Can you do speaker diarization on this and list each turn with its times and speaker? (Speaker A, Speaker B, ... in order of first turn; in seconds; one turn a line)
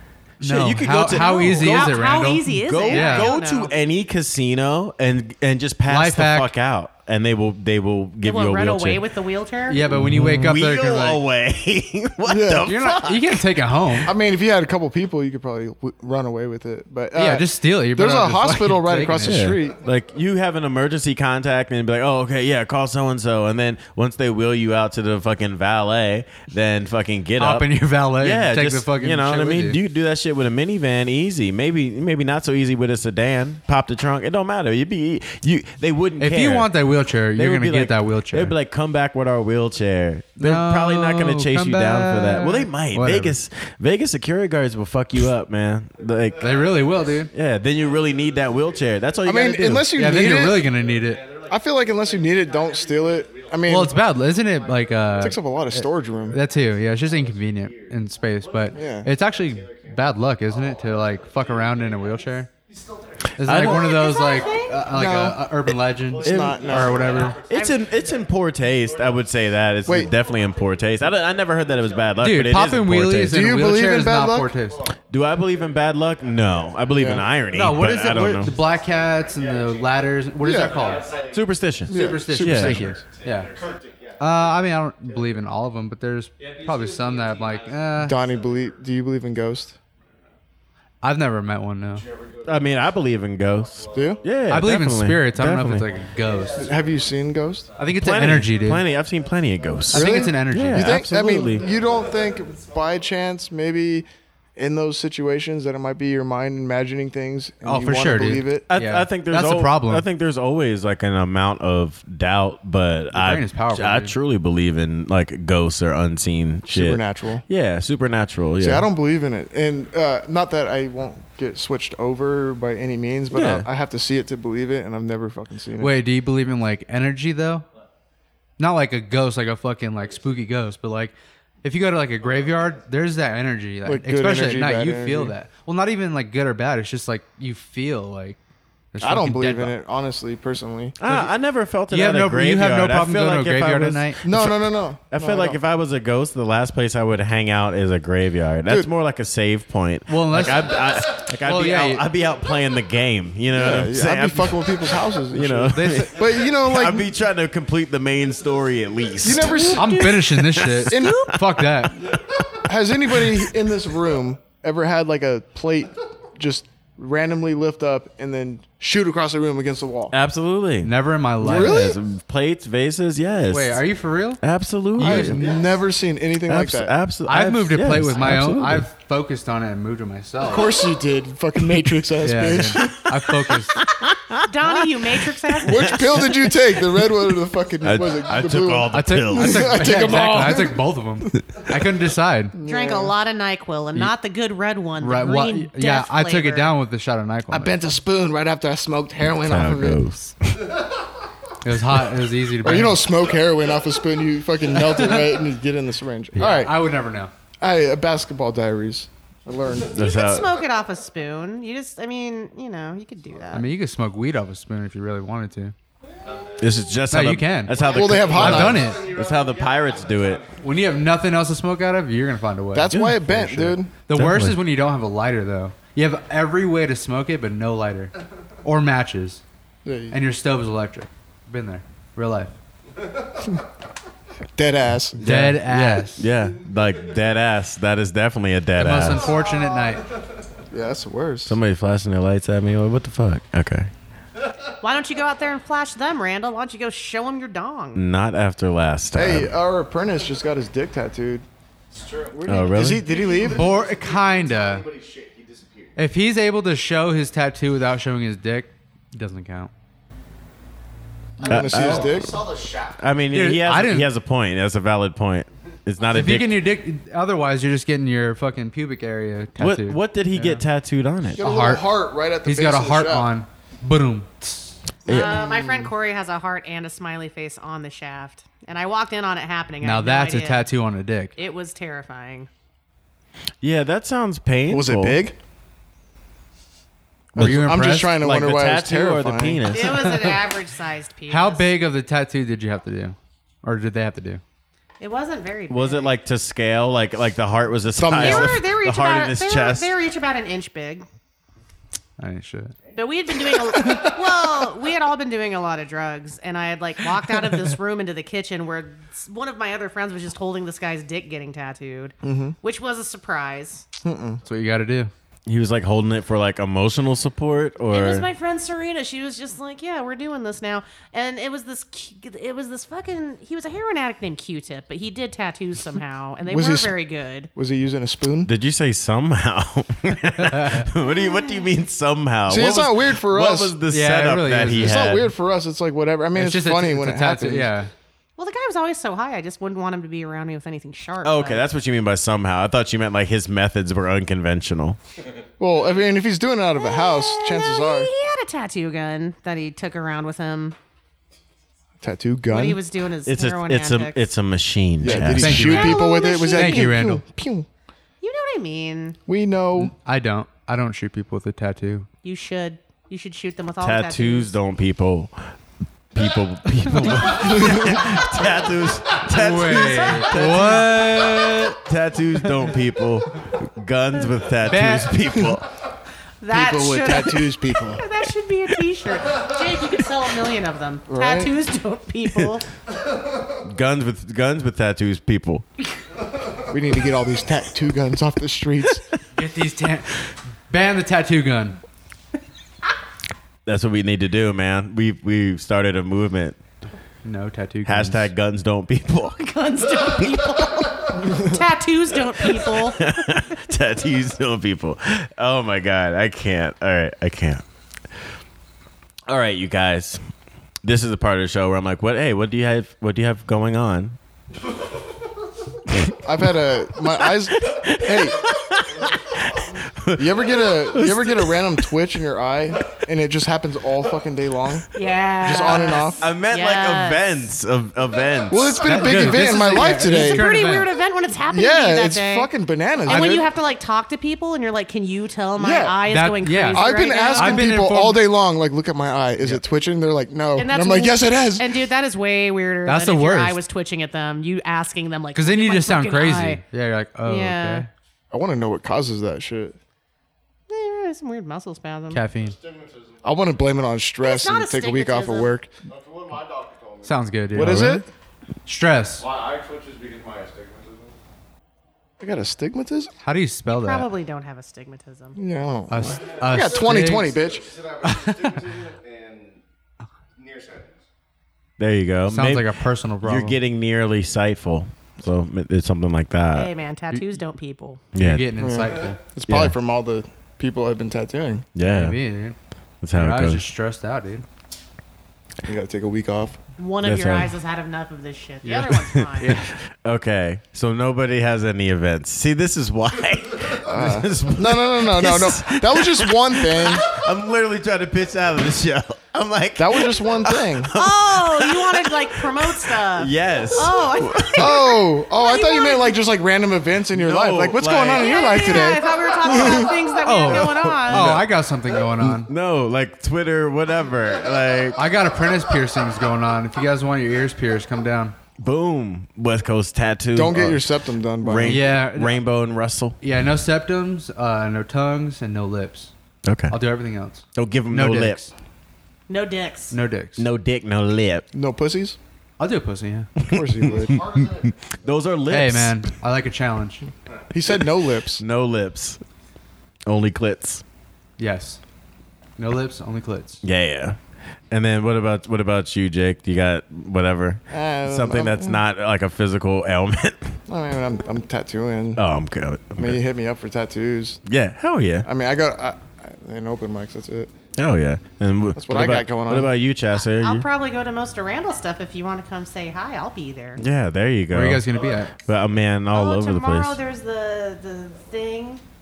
Speaker A: 0.4-3.4
Speaker B: 0.4-9.0
Speaker C: 1.1-3.7
Speaker A: 5.9-6.5
Speaker C: 8.2-9.8
Speaker A: 9.7-11.2
Speaker B: 9.9-13.4
Speaker D: 12.2-12.7
Speaker A: 12.7-14.1
Speaker D: 14.0-19.8
Speaker A: 17.1-19.5
Speaker B: 19.2-36.7
Speaker A: 27.4-29.8
Speaker A: 36.2-38.5
Speaker B: 37.4-46.6
Speaker A: 40.4-43.4
Speaker E: 46.0-72.4
Speaker A: 46.4-47.3
Speaker B: 47.3-50.1
Speaker D: 49.2-50.7
Speaker A: 49.9-51.2
Speaker D: 51.5-54.0
Speaker A: 53.7-55.4
Speaker D: 55.2-56.4
Speaker A: 56.3-62.5
Speaker D: 58.7-59.1
Speaker A: 63.4-67.4
Speaker B: 63.5-64.1
Speaker C: 63.6-64.9
Speaker D: 64.9-65.5
Speaker D: 66.2-67.2
Speaker B: 66.3-73.4
Speaker C: 67.5-67.9
Speaker D: 69.9-70.1
Speaker A: 72.2-74.8
Speaker D: 73.2-74.5
Speaker E: 73.6-82.4
Speaker B: 75.1-78.5
Speaker D: 77.0-77.3
Speaker A: 77.5-81.2
Speaker D: 80.4-80.9
Speaker B: 81.2-82.9
Speaker D: 81.9-83.1
Speaker A: 81.9-83.5
Speaker E: 82.9-85.6
Speaker A: 84.2-88.2
Speaker E: 86.4-88.8
Speaker D: 88.0-89.8
Speaker A: 91.0-92.0
Speaker E: 91.9-94.8
Speaker B: 92.5-95.9
Speaker D: 93.9-94.2
Speaker A: 94.5-96.7
Speaker E: 95.8-102.9
Speaker D: 96.6-97.7
Speaker A: 97.8-98.8
Speaker B: 97.9-101.7
Speaker A: 99.9-101.2
Speaker D: 99.9-108.7
Speaker A: 107.7-110.1
Speaker B: 108.7-118.9
Speaker A: 113.1-114.2
Speaker D: 116.7-117.4
Speaker D: 118.6-126.0
Speaker B: 123.3-123.7
Speaker A: 125.8-127.7
Speaker A: 128.6-138.4
Speaker E: 132.2-132.8
Speaker D: 133.8-135.3
Speaker A: 138.9-139.7
Speaker D: 139.0-141.3
Speaker B: 141.0-162.2
Speaker A: 141.9-144.2
Speaker D: 144.2-145.6
Speaker D: 148.7-148.9
Speaker A: 150.1-150.8
Speaker A: 151.4-152.1
Speaker D: 153.5-157.1
Speaker A: 155.7-156.1
Speaker E: 158.3-159.3
Speaker D: 159.2-160.1
Speaker C: 159.4-160.3
Speaker A: 159.8-162.0
Speaker D: 160.9-161.2
Speaker C: 160.9-161.4
Speaker D: 162.7-170.2
Speaker B: 163.1-163.4
Speaker B: 170.1-173.9
Speaker A: 170.8-171.9
Speaker D: 171.4-172.0
Speaker A: 173.5-174.4
Speaker B: 174.4-175.4
Speaker A: 174.9-175.4
Speaker D: 175.0-176.9
Speaker B: 176.5-178.9
Speaker A: 177.3-180.7
Speaker D: 180.4-183.3
Speaker A: 182.2-183.8
Speaker B: 183.7-186.5
Speaker C: 184.5-186.4
Speaker D: 185.6-190.9
Speaker B: 187.8-189.9
Speaker A: 188.9-192.6
Speaker D: 192.5-193.1
Speaker C: 192.7-196.7
Speaker A: 195.0-197.9
Speaker D: 197.5-200.0
Speaker B: 199.4-200.7
Speaker A: 201.6-203.0
Speaker D: 202.6-206.8
Speaker A: 204.8-205.3
Speaker A: 206.3-207.3
Speaker D: 207.6-210.1
Speaker C: 209.9-213.7
Speaker B: 210.0-210.5
Speaker A: 213.5-215.7
Speaker E: 216.4-216.7
Speaker B: 216.6-220.5
Speaker A: 217.1-219.1
Speaker E: 217.7-221.2
Speaker D: 217.8-218.9
Speaker A: 220.6-223.0
Speaker D: 222.7-223.9
Speaker B: 222.9-224.6
Speaker A: 224.1-228.1
Speaker A: 228.6-229.4
Speaker D: 229.8-230.2
Speaker A: 230.1-232.5
Speaker D: 234.6-235.3
Speaker B: 235.2-239.4
Speaker A: 235.2-236.3
Speaker A: 238.8-240.1
Speaker D: 240.7-241.6
Speaker B: 241.5-243.9
Speaker C: 244.8-248.0
Speaker B: 247.9-249.5
Speaker D: 249.1-251.5
Speaker E: 251.9-256.0
Speaker D: 252.4-253.7
Speaker B: 252.5-253.1
Speaker A: 253.4-254.9
Speaker A: 256.0-259.7
Speaker D: 261.4-262.3
Speaker E: 261.4-263.2
Speaker B: 261.5-262.2
Speaker B: 263.0-266.7
Speaker A: 263.3-264.1
Speaker A: 266.1-270.6
Speaker B: 269.6-271.4
Speaker D: 271.4-273.3
Speaker A: 271.4-274.8
Speaker B: 275.1-275.3
Speaker C: 275.1-280.7
Speaker D: 275.1-275.9
Speaker A: 279.8-281.3
Speaker C: 281.4-282.5
Speaker B: 283.6-285.2
Speaker D: 284.7-285.4
Speaker D: 287.3-289.9
Speaker A: 287.4-288.2
Speaker B: 287.4-290.3
Speaker C: 289.7-291.7
Speaker A: 291.3-294.4
Speaker C: 295.0-296.1
Speaker B: 295.7-299.9
Speaker D: 297.9-298.6
Speaker C: 298.2-301.1
Speaker A: 302.2-302.8
Speaker C: 302.9-313.9
Speaker D: 312.2-312.6
Speaker D: 314.0-314.4
Speaker A: 314.4-315.1
Speaker B: 315.5-318.3
Speaker C: 317.9-327.5
Speaker D: 326.4-326.9
Speaker D: 327.6-328.5
Speaker B: 328.4-335.2
Speaker A: 330.4-330.9
Speaker C: 331.0-331.7
Speaker D: 332.5-333.8
Speaker A: 333.9-335.2
Speaker D: 334.8-337.7
Speaker A: 336.4-337.9
Speaker C: 338.4-341.6
Speaker B: 341.2-345.0
Speaker D: 345.6-348.1
Speaker C: 346.8-350.8
Speaker D: 352.0-352.8
Speaker C: 352.5-354.3
Speaker B: 353.2-355.7
Speaker D: 355.0-357.7
Speaker A: 355.1-357.2
Speaker C: 355.6-357.0
Speaker C: 358.2-359.2
Speaker D: 359.3-359.9
Speaker A: 359.8-362.1
Speaker C: 362.2-364.5
Speaker B: 363.8-365.3
Speaker B: 366.1-375.7
Speaker D: 367.5-367.9
Speaker A: 369.2-371.8
Speaker C: 369.8-370.6
Speaker A: 374.6-375.3
Speaker C: 376.4-382.6
Speaker D: 376.5-378.0
Speaker D: 381.1-381.6
Speaker B: 383.6-385.7
Speaker D: 386.7-389.0
Speaker A: 389.4-391.8
Speaker B: 393.7-396.6
Speaker A: 397.2-398.3
Speaker B: 397.9-399.6
Speaker C: 399.4-403.0
Speaker B: 402.4-407.6
Speaker B: 409.3-410.2
Speaker B: 410.8-414.2
Speaker D: 416.2-418.4
Speaker B: 417.2-421.7
Speaker D: 420.2-424.9
Speaker C: 424.9-427.5
Speaker D: 425.4-426.2
Speaker B: 426.2-429.4
Speaker D: 428.5-430.5
Speaker A: 428.8-430.9
Speaker C: 430.0-432.5
Speaker D: 431.5-433.5
Speaker C: 433.1-437.7
Speaker D: 435.6-436.0
Speaker A: 436.1-438.2
Speaker D: 436.7-441.8
Speaker C: 440.6-446.6
Speaker A: 442.9-443.6
Speaker A: 445.4-447.9
Speaker C: 447.2-447.9
Speaker D: 448.3-449.8
Speaker C: 450.7-452.2
Speaker A: 452.1-452.6
Speaker E: 452.3-453.6
Speaker D: 453.2-455.7
Speaker C: 454.2-455.6
Speaker E: 455.8-457.9
Speaker A: 457.0-458.1
Speaker D: 457.5-458.1
Speaker A: 458.7-459.3
Speaker E: 459.1-461.2
Speaker D: 462.2-463.1
Speaker A: 463.2-464.1
Speaker C: 463.7-465.4
Speaker D: 465.4-467.7
Speaker A: 465.9-467.3
Speaker E: 466.1-469.6
Speaker A: 468.0-468.6
Speaker E: 470.4-471.1
Speaker B: 471.8-476.7
Speaker A: 472.3-473.6
Speaker C: 476.5-478.0
Speaker B: 478.1-478.5
Speaker A: 478.2-479.2
Speaker D: 478.6-481.7
Speaker B: 479.5-479.7
Speaker B: 481.8-482.2
Speaker A: 481.8-482.6
Speaker B: 483.0-483.6
Speaker A: 483.1-484.4
Speaker D: 485.6-486.6
Speaker C: 486.8-489.6
Speaker B: 487.0-487.5
Speaker A: 488.6-489.7
Speaker B: 489.1-504.9
Speaker D: 493.9-497.1
Speaker D: 499.8-500.9
Speaker C: 500.9-506.2
Speaker D: 504.6-510.0
Speaker B: 507.1-511.5
Speaker C: 508.1-511.3
Speaker A: 510.2-512.5
Speaker B: 512.2-515.0
Speaker A: 515.0-518.4
Speaker B: 518.6-520.8
Speaker D: 520.3-521.8
Speaker B: 521.4-523.2
Speaker A: 521.6-522.4
Speaker A: 523.2-526.1
Speaker B: 526.5-526.8
Speaker A: 526.7-528.5
Speaker B: 527.5-528.5
Speaker C: 529.3-530.0
Speaker A: 529.9-530.5
Speaker B: 530.4-531.5
Speaker D: 531.5-532.2
Speaker A: 532.6-533.3
Speaker B: 533.4-536.1
Speaker D: 533.5-534.2
Speaker E: 533.9-534.7
Speaker A: 535.5-537.1
Speaker D: 537.5-538.4
Speaker B: 538.4-539.2
Speaker B: 540.1-540.8
Speaker A: 541.4-541.8
Speaker A: 542.6-543.6
Speaker B: 543.6-544.2
Speaker B: 544.7-550.6
Speaker D: 547.7-548.8
Speaker D: 550.7-552.2
Speaker B: 552.2-553.2
Speaker D: 553.0-554.4
Speaker B: 554.5-555.3
Speaker D: 555.2-557.5
Speaker B: 557.8-560.6
Speaker D: 558.8-559.7
Speaker C: 560.3-563.8
Speaker B: 563.8-567.0
Speaker A: 564.5-565.3
Speaker C: 566.1-568.8